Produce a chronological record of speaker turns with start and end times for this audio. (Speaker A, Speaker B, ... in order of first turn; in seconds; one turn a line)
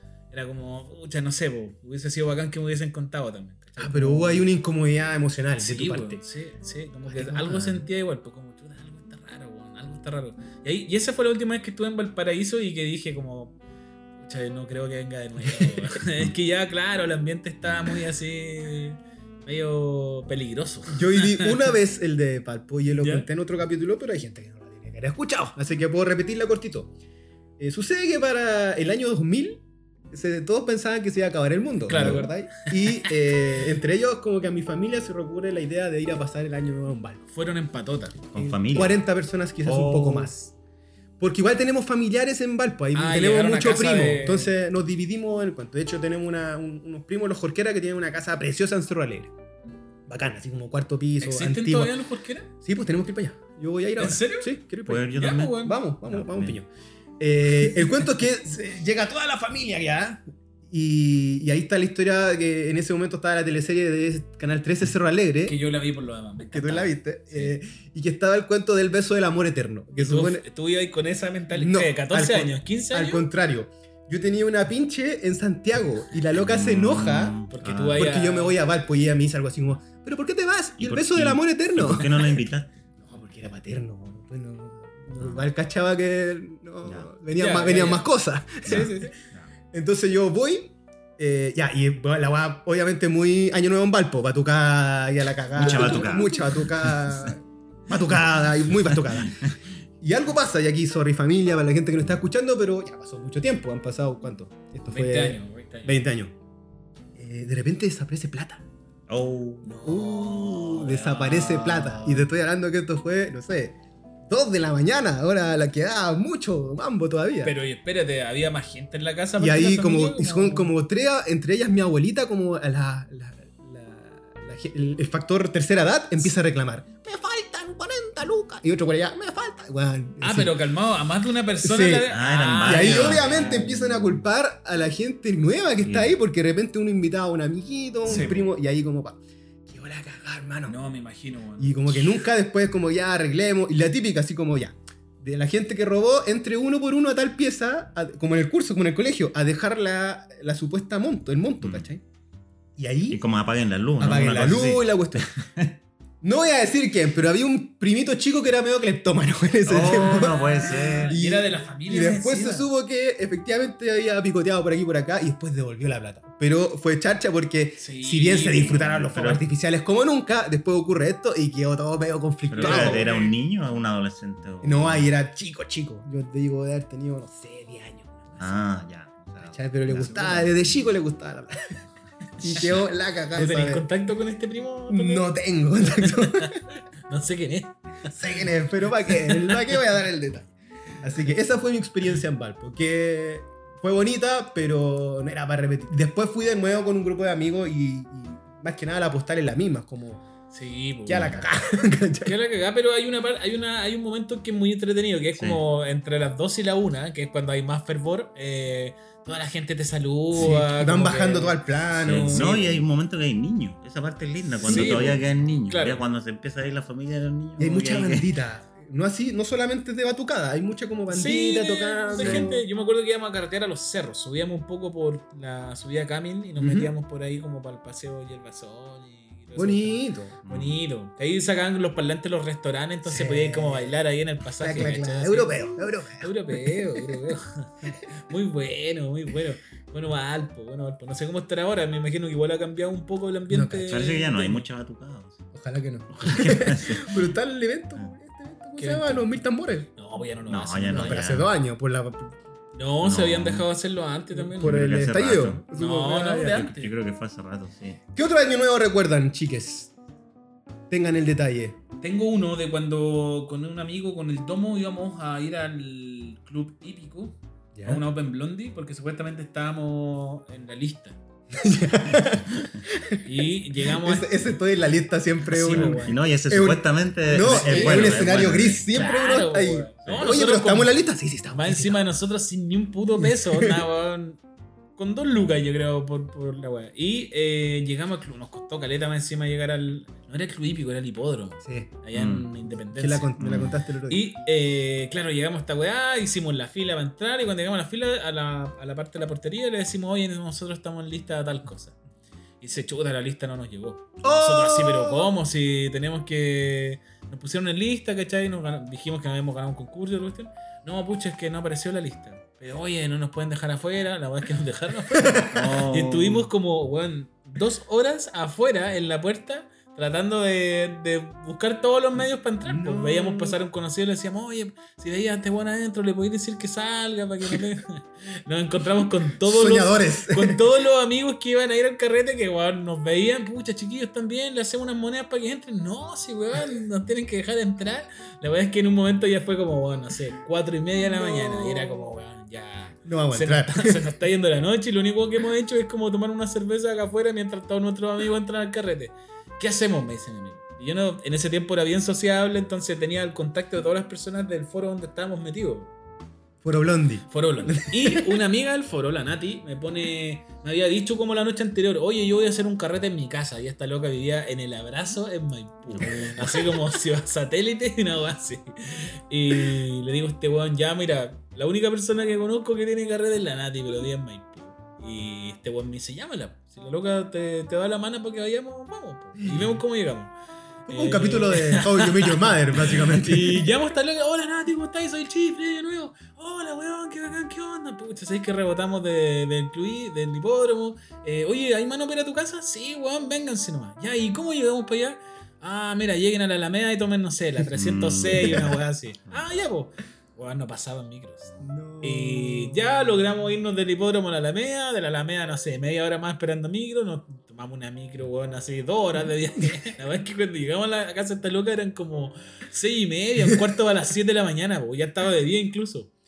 Speaker A: 0.3-4.5
Speaker B: 3.8-6.2
Speaker A: 5.6-13.5
Speaker B: 7.1-7.8
Speaker A: 14.2-21.7
Speaker B: 15.4-15.8
Speaker B: 20.9-26.9
Speaker A: 23.0-23.2
Speaker B: 27.6-37.2
Speaker A: 31.9-33.1
Speaker A: 37.3-38.2
Speaker C: 38.3-39.0
Speaker B: 38.3-40.5
Speaker A: 39.7-40.3
Speaker B: 41.2-49.3
Speaker A: 42.9-44.5
Speaker B: 50.1-52.0
Speaker A: 51.2-52.5
Speaker B: 52.6-56.7
Speaker A: 54.0-54.5
Speaker C: 54.9-56.5
Speaker A: 55.1-55.8
Speaker B: 57.2-65.5
Speaker A: 65.4-67.5
Speaker B: 66.5-70.4
Speaker A: 70.0-73.3
Speaker B: 71.5-77.4
Speaker C: 76.3-78.1
Speaker A: 77.5-78.6
Speaker B: 77.9-82.4
Speaker C: 80.8-82.7
Speaker B: 83.0-88.9
Speaker C: 85.2-85.5
Speaker C: 86.8-87.1
Speaker A: 87.3-88.1
Speaker A: 88.6-89.2
Speaker C: 88.7-89.5
Speaker B: 89.7-106.3
Speaker C: 95.5-97.3
Speaker A: 95.7-96.3
Speaker C: 98.8-99.6
Speaker A: 104.9-106.0
Speaker B: 107.2-108.6
Speaker C: 109.1-109.7
Speaker A: 109.6-112.3
Speaker B: 109.8-113.8
Speaker B: 114.3-117.5
Speaker A: 117.4-120.7
Speaker B: 119.4-130.5
Speaker A: 130.2-133.8
Speaker B: 131.6-132.1
Speaker C: 132.1-134.1
Speaker B: 132.6-140.8
Speaker C: 135.8-136.1
Speaker A: 138.1-138.4
Speaker C: 138.1-138.4
Speaker A: 140.7-142.2
Speaker B: 141.6-152.0
Speaker C: 151.6-151.9
Speaker B: 152.8-153.2
Speaker C: 153.1-155.7
Speaker B: 154.0-155.3
Speaker B: 156.2-173.1
Speaker C: 159.7-161.2
Speaker A: 160.0-162.7
Speaker A: 167.8-168.8
Speaker C: 168.6-169.4
Speaker C: 172.5-175.1
Speaker A: 172.5-173.3
Speaker B: 174.6-178.5
Speaker C: 178.4-180.6
Speaker B: 179.4-181.8
Speaker B: 182.4-183.8
Speaker A: 183.3-185.2
Speaker B: 184.9-186.6
Speaker A: 185.9-188.4
Speaker B: 188.1-200.2
Speaker A: 189.1-189.8
Speaker A: 200.5-201.4
Speaker B: 201.1-202.3
Speaker A: 202.2-211.6
Speaker B: 210.3-212.8
Speaker C: 212.0-218.3
Speaker A: 212.3-212.6
Speaker B: 214.6-215.2
Speaker A: 214.6-216.0
Speaker B: 217.6-222.6
Speaker A: 221.1-235.7
Speaker C: 222.2-222.5
Speaker B: 226.6-226.9
Speaker B: 229.6-230.4
Speaker C: 230.4-230.8
Speaker B: 233.0-234.0
Speaker B: 234.6-237.2
Speaker A: 236.2-244.6
Speaker B: 243.5-244.0
Speaker C: 243.9-245.4
Speaker B: 245.5-249.9
Speaker C: 246.2-247.3
Speaker A: 248.8-249.3
Speaker A: 249.9-251.2
Speaker C: 250.5-251.5
Speaker B: 250.9-252.3
Speaker A: 252.7-254.8
Speaker C: 253.0-253.7
Speaker B: 254.3-256.6
Speaker C: 254.6-255.6
Speaker A: 255.8-256.9
Speaker C: 256.4-258.0
Speaker B: 258.1-259.9
Speaker B: 260.9-261.8
Speaker A: 262.0-271.2
Speaker B: 267.7-268.0
Speaker B: 271.5-273.2
Speaker A: 273.2-274.3
Speaker B: 273.8-282.0
Speaker A: 275.5-276.1
Speaker C: 275.7-278.9
Speaker A: 277.4-278.2
Speaker A: 278.9-281.0
Speaker C: 280.1-280.3
Speaker A: 281.5-284.4
Speaker B: 283.2-283.8
Speaker A: 285.0-293.3
Speaker B: 291.6-291.9
Speaker C: 292.1-292.5
Speaker B: 292.9-294.3
Speaker C: 293.4-293.7
Speaker A: 294.1-301.9
Speaker A: 302.6-355.9
Speaker B: 304.2-305.3
Speaker B: 315.2-315.4
Speaker C: 315.5-316.5
Speaker B: 322.6-323.6
Speaker B: 329.4-330.6
Speaker B: 341.0-342.1
Speaker B: 343.1-344.0
Speaker B: 356.6-358.2
Speaker A: 357.3-380.3
Speaker C: 365.9-366.3
Speaker B: 366.0-366.8
Speaker B: 379.4-379.8
Speaker B: 380.9-383.7
Speaker A: 380.9-416.1
Speaker C: 397.7-398.7
Speaker B: 401.6-403.2